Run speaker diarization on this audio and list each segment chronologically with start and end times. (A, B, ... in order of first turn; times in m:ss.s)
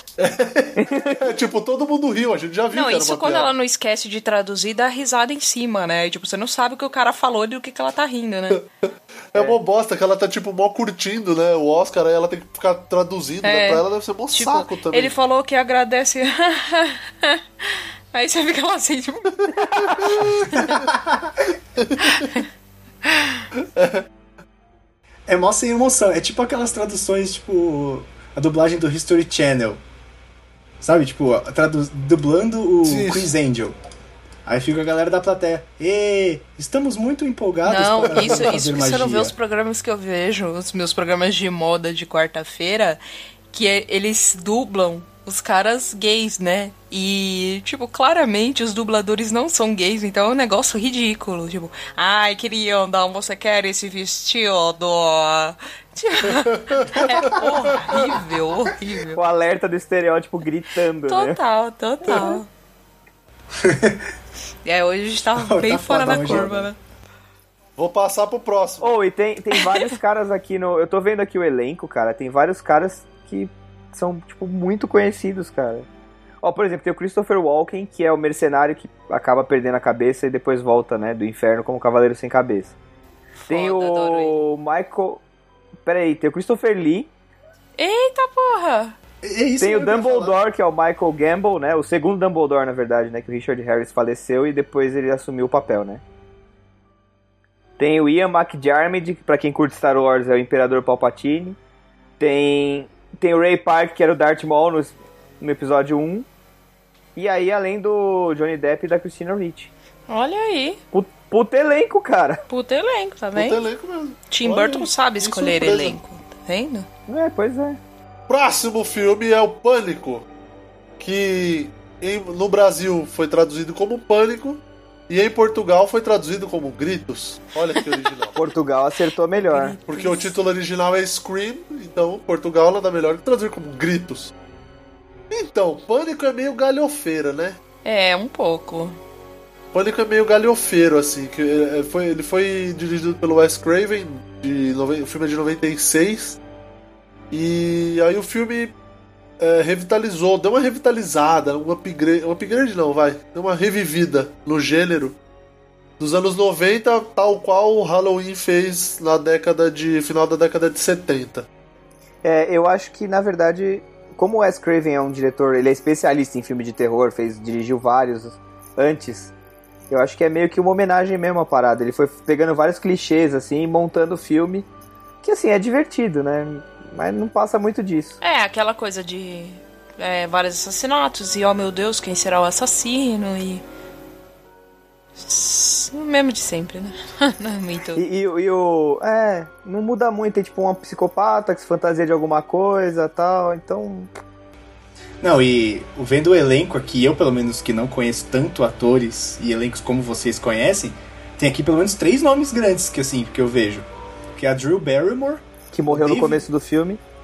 0:00.2-0:03.5 A
0:00.8-0:01.2 B
0:02.7-0:08.6 C
0:09.3-0:15.1 A
0:09.4-0:09.6 B
0:13.4-0:20.7 C
0:19.8-0:20.8 A
0:20.5-0:21.5 D
0:21.8-0:22.3 A
0:22.0-0:22.4 C
0:23.0-0:23.5 C
0:23.6-0:24.1 A
0:25.3-0:29.8 D
0:30.8-0:33.8 D
0:32.8-0:33.3 A
0:34.5-0:39.3 D
0:37.6-0:43.0 C
0:38.1-0:38.5 A
0:43.5-0:59.2 C
0:56.4-0:58.2 A
0:59.1-1:01.4 B
1:01.1-1:02.5 C
1:03.6-1:04.1 D
1:04.6-1:06.8 C
1:05.4-1:06.7 D
1:07.8-1:08.9 A
1:08.8-1:15.9 B
1:09.5-1:09.9 C
1:16.4-1:22.8 B
1:23.4-1:24.4 C
1:23.5-1:25.2 B
1:25.8-1:27.1 B
1:27.8-1:29.0 C
1:29.2-1:30.4 D
1:29.6-1:36.0 B
1:37.8-1:41.6 B
1:42.2-1:46.3 B
1:47.2-1:49.7 B
1:50.1-1:50.8 C
1:50.9-1:52.4 B
1:52.5-1:53.6 C
1:53.4-1:56.0 A
1:54.3-1:56.9 C
1:57.1-1:57.8 B
1:58.3-2:00.3 A
2:01.0-2:08.4 A
2:08.4-2:09.8 B
2:09.4-2:10.4 C
2:09.9-2:14.3 A
2:15.3-2:17.6 A
2:17.8-2:19.0 C
2:19.7-2:26.4 A
2:27.3-2:28.7 A
2:29.4-2:35.2 A
2:36.0-2:41.5 A
2:42.2-2:49.3 B
2:49.9-2:54.7 B
2:55.2-2:58.2 B
2:58.2-3:03.6 C
3:05.2-3:08.0 C
3:08.0-3:14.1 B
3:15.2-3:26.5 D
3:25.7-3:27.0 B